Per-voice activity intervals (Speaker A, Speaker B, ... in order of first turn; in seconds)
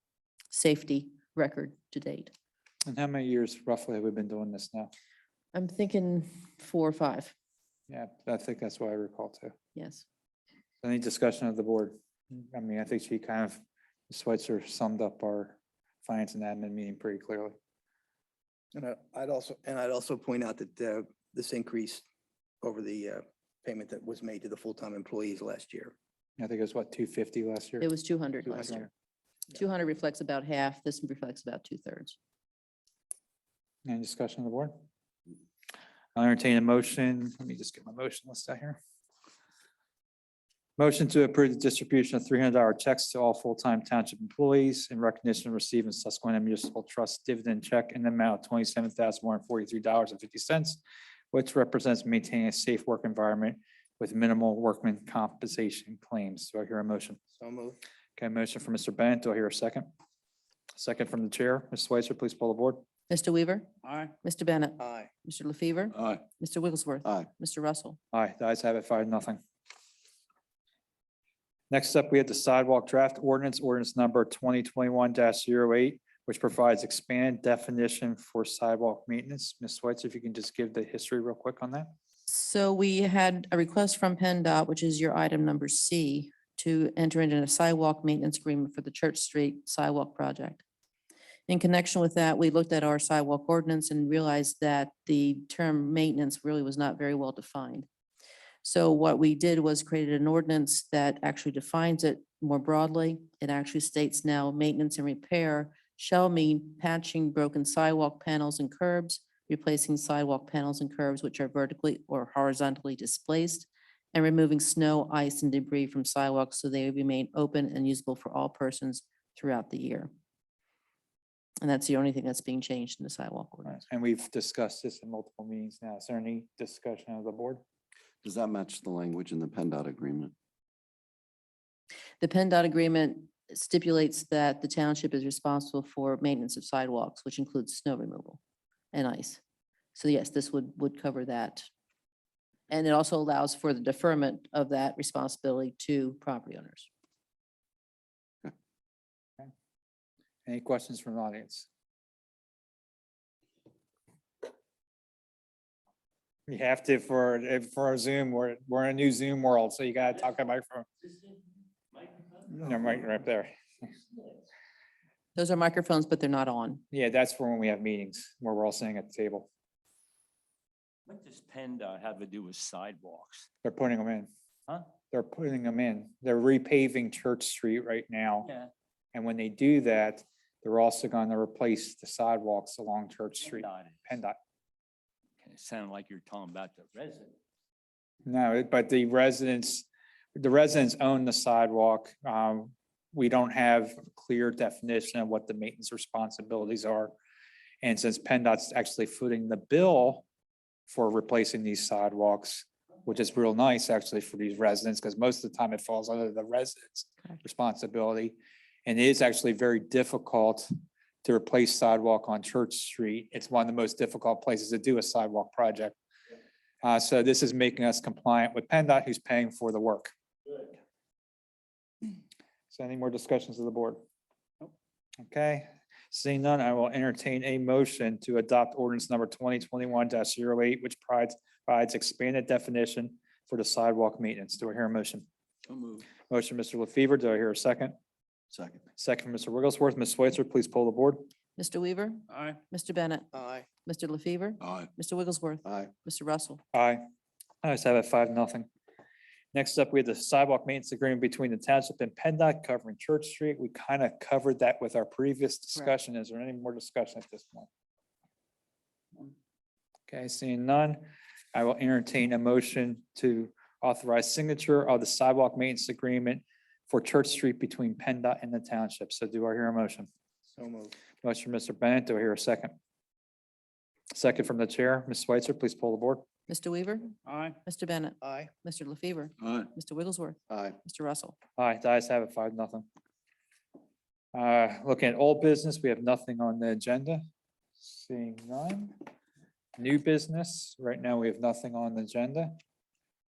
Speaker A: 0.5-2.3, 5.5-7.3, 9.7-10.0, 27.8-28.8, 29.5-32.2, 63.1-63.7, 64.2-68.0, 82.3-90.6, 91.5-97.9, 98.6-120.1, 121.6-123.8, 132.2-138.4, 138.9-139.4, 139.9-141.7, 142.7-146.9, 165.3-166.8, 241.6-246.6, 276.5-281.4
Speaker B: 2.9-4.9, 7.9-9.5, 10.8-17.6, 26.4-27.9, 28.4-28.9, 33.8-34.7, 36.1-38.8, 40.8-50.8, 51.3-57.2, 58.2-59.9, 60.8-62.8, 68.1-69.4, 71.7-81.9, 123.7-127.6, 150.4-151.7, 156.5-160.8, 162.6-163.5, 166.9-169.5, 173.6-174.3, 175.1-178.5, 179.1-184.4, 188.2-197.1, 197.8-200.2, 200.9-210.7, 211.2-216.0, 216.8-220.1, 222.7-224.0, 225.2-235.2, 236.3-237.9, 239.0-241.2, 246.7-247.0, 247.6-248.7, 249.5-257.7, 260.1-270.1, 271.2-272.7, 274.1-276.2, 281.6-282.9, 284.3-287.2, 287.8-288.9, 289.8-292.5
Speaker C: 18.7-22.0, 22.6-25.9, 57.4-57.8, 64.8-65.1, 243.3-243.7, 270.5-270.9, 278.2-278.5
Speaker D: 63.8-64.1, 161.9-162.5, 171.1-173.5, 178.4-178.7, 183.4-183.9, 185.4-187.3, 235.7-236.0, 242.3-242.6, 277.2-277.6
Speaker E: 128.2-130.3, 238.5-238.8, 245.6-245.9, 280.5-280.7